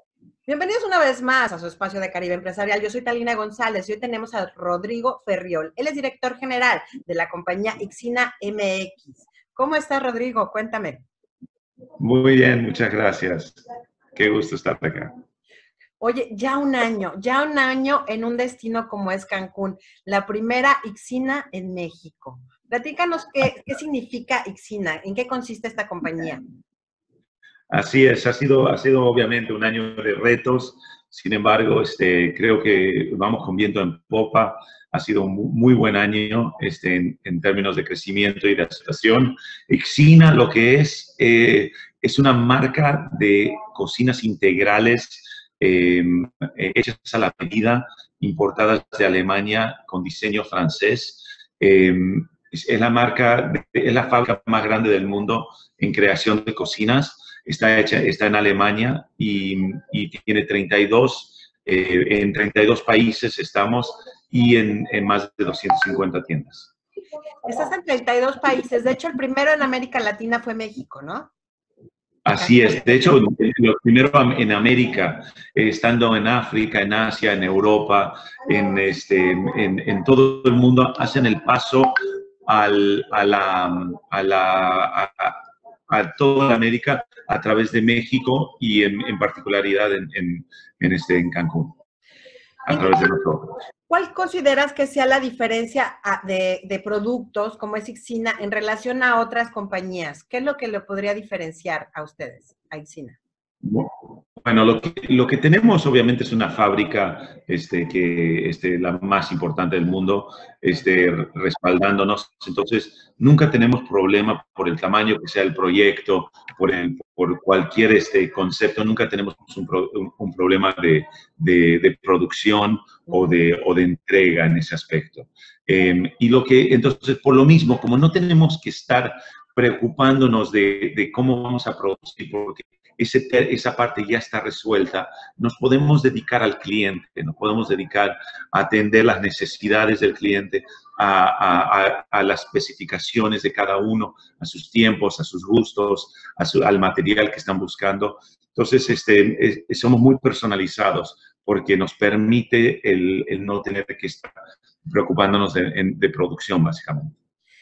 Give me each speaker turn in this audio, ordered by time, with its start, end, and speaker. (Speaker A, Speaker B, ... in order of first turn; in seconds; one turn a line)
Speaker A: 0.5-11.0
Speaker B: 12.0-13.6
Speaker B: 14.1-15.1
Speaker A: 16.0-26.4
Speaker B: 27.7-66.7
Speaker A: 67.5-71.3
Speaker B: 72.2-82.0
Speaker A: 72.4-73.2
Speaker B: 82.5-91.8
Speaker B: 92.7-93.6
Speaker A: 92.7-93.0
Speaker A: 93.9-103.2
Speaker B: 103.6-154.3
Speaker B: 154.8-157.2